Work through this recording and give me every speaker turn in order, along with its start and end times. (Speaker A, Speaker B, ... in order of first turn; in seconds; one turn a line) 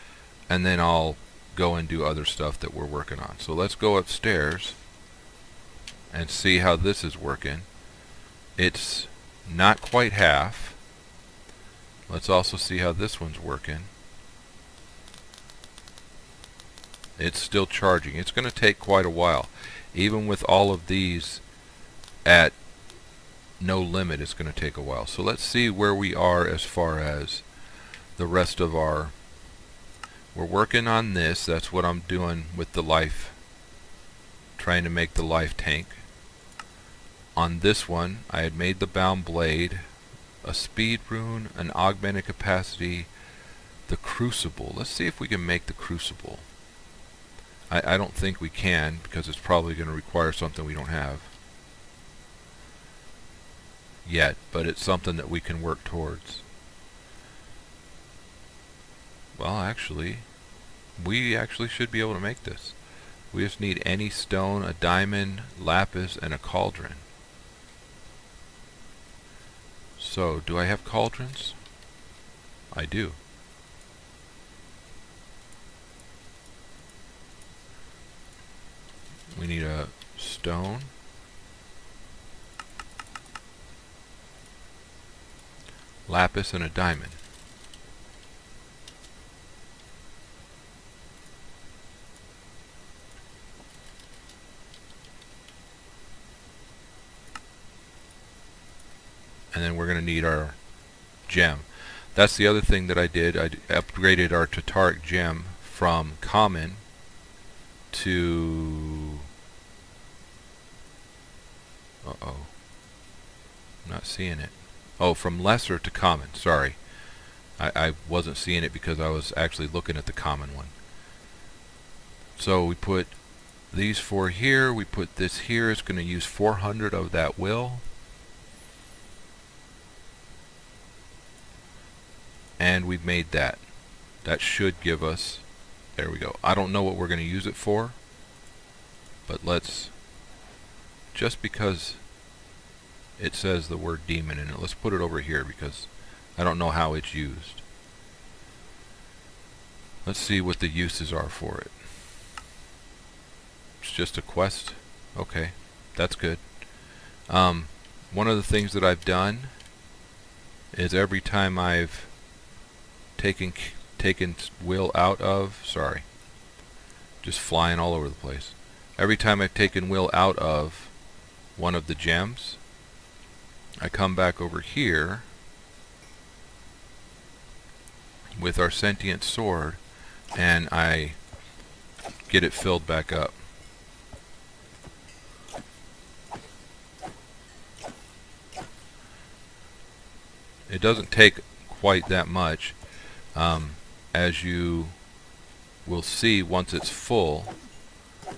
Speaker A: 0.5-4.8
Speaker A: 6.1-7.7
Speaker A: 8.6-10.8
Speaker A: 12.1-13.9
Speaker A: 17.2-21.4
Speaker A: 22.2-22.6
Speaker A: 23.6-27.4
Speaker A: 28.2-29.1
Speaker A: 30.3-33.4
Speaker A: 34.6-36.0
Speaker A: 37.3-39.8
Speaker A: 40.4-43.1
Speaker A: 43.9-46.4
Speaker A: 47.7-51.3
Speaker A: 54.0-56.4
Speaker A: 59.3-60.2
Speaker A: 61.0-62.8
Speaker A: 63.3-67.0
Speaker A: 70.0-71.6
Speaker A: 72.7-73.2
Speaker A: 79.3-80.9
Speaker A: 86.1-87.2
Speaker A: 99.5-100.6
Speaker A: 101.3-106.8
Speaker A: 107.9-109.2
Speaker A: 112.0-112.5
Speaker A: 113.8-116.8
Speaker A: 117.6-120.7
Speaker A: 122.4-123.1
Speaker A: 123.7-127.8
Speaker A: 132.6-133.6
Speaker A: 134.2-135.4
Speaker A: 136.0-138.0
Speaker A: 139.3-139.9
Speaker A: 141.1-142.0
Speaker A: 143.2-147.6
Speaker A: 150.0-151.7
Speaker A: 153.8-156.4
Speaker A: 157.3-159.5
Speaker A: 160.7-162.1
Speaker A: 163.2-166.0
Speaker A: 167.2-170.9
Speaker A: 171.6-172.6
Speaker A: 173.8-175.2
Speaker A: 178.3-179.8
Speaker A: 180.3-181.2
Speaker A: 182.3-183.3
Speaker A: 190.7-192.8
Speaker A: 193.3-194.9
Speaker A: 195.8-197.5